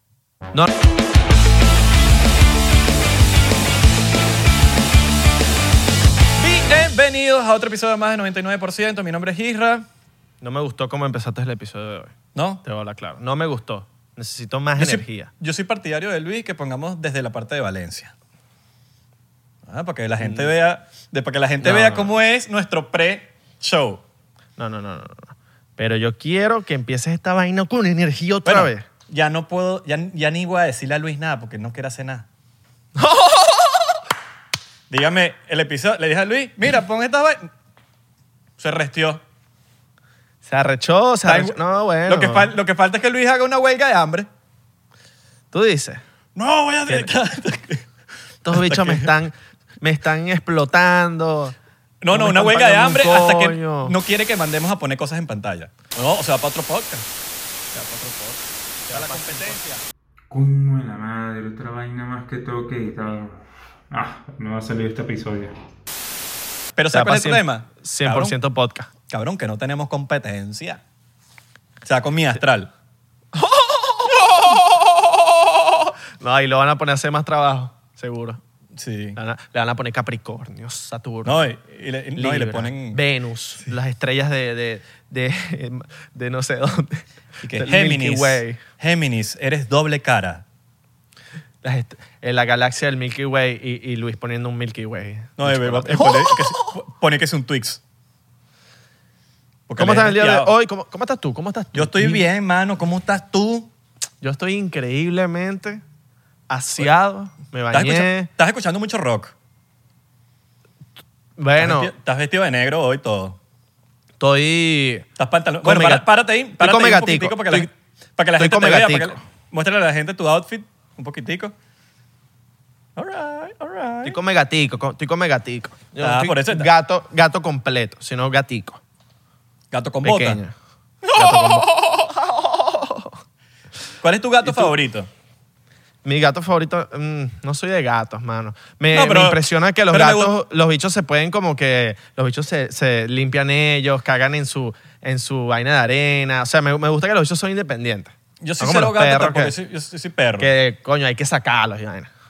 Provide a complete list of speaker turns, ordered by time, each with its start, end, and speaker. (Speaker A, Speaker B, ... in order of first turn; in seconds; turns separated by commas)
Speaker A: 6.4-9.9, Speaker B: 10.4-15.3, Speaker A: 12.3-12.6, Speaker A: 14.8-18.1, Speaker A: 19.6-24.0, Speaker B: 20.2-20.5, Speaker B: 21.6-22.1, Speaker B: 24.6-28.8, Speaker A: 28.4-32.3, Speaker B: 33.0-34.0, Speaker A: 34.9-37.5, Speaker A: 38.6-39.2, Speaker B: 40.4-42.5, Speaker A: 41.2-44.3, Speaker B: 45.5-46.0, Speaker A: 46.4-47.9, Speaker B: 48.4-51.5, Speaker A: 48.5-49.1, Speaker A: 52.0-57.1, Speaker B: 52.1-53.9, Speaker B: 57.7-59.6, Speaker A: 58.9-59.8, Speaker C: 60.3-65.5, Speaker A: 66.8-68.3, Speaker B: 66.9-68.9, Speaker A: 69.1-70.8, Speaker A: 71.8-72.7, Speaker B: 73.3-74.5, Speaker B: 76.2-78.4, Speaker A: 78.7-79.2, Speaker B: 79.2-81.4, Speaker A: 81.2-83.0, Speaker B: 82.2-88.6, Speaker A: 87.4-90.4, Speaker B: 91.6-96.7, Speaker A: 95.4-97.8, Speaker A: 99.7-100.5, Speaker B: 99.8-102.2, Speaker A: 101.7-103.7, Speaker B: 104.2-105.8, Speaker B: 106.5-108.3, Speaker A: 107.7-109.3, Speaker B: 111.4-111.9, Speaker A: 111.6-113.4, Speaker B: 114.2-115.1, Speaker A: 115.2-121.5, Speaker B: 115.6-116.0, Speaker B: 116.6-117.7, Speaker B: 118.4-119.2, Speaker A: 123.0-124.2, Speaker B: 124.0-128.8, Speaker A: 126.0-126.7, Speaker A: 129.7-130.4, Speaker B: 130.0-130.5, Speaker A: 131.0-132.1, Speaker B: 131.1-133.1, Speaker A: 134.0-135.1, Speaker B: 134.4-134.7, Speaker B: 136.0-149.5, Speaker A: 138.9-139.4, Speaker A: 139.9-140.3, Speaker A: 148.4-150.5, Speaker B: 150.4-152.1